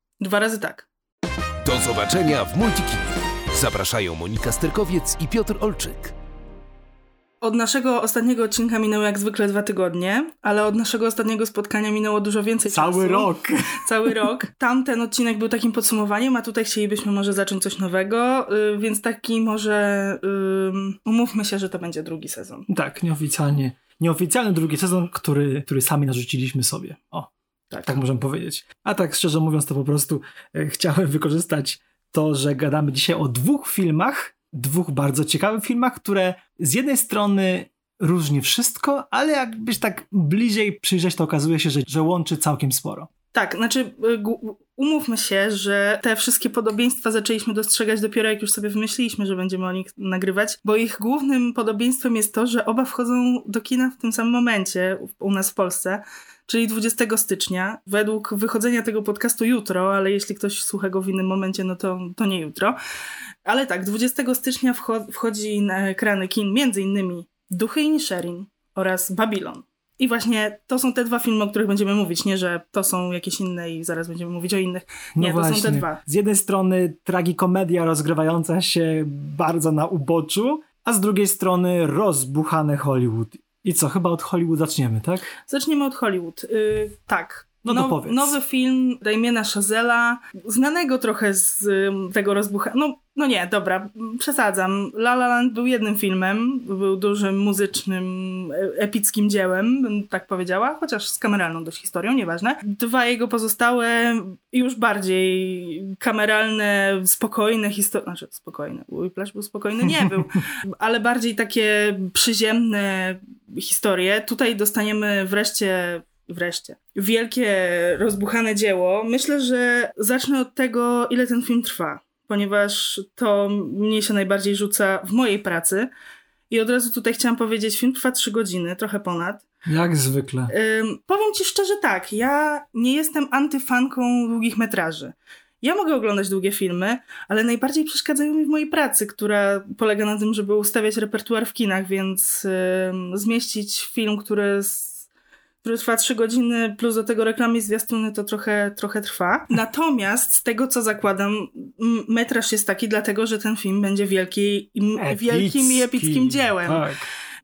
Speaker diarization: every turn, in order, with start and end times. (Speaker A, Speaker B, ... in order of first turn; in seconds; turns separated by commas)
Speaker A: 0.2-0.9, Speaker B: 1.6-6.1, Speaker A: 7.4-22.7, Speaker C: 12.7-14.3, Speaker C: 22.7-27.3, Speaker A: 27.7-28.0, Speaker C: 27.8-43.1, Speaker A: 43.3-62.8, Speaker A: 63.5-76.0, Speaker C: 75.2-85.4, Speaker A: 85.5-125.9, Speaker C: 87.6-88.4, Speaker A: 126.5-129.4, Speaker C: 129.7-130.5, Speaker A: 130.5-145.1, Speaker A: 145.6-156.9, Speaker C: 155.0-157.1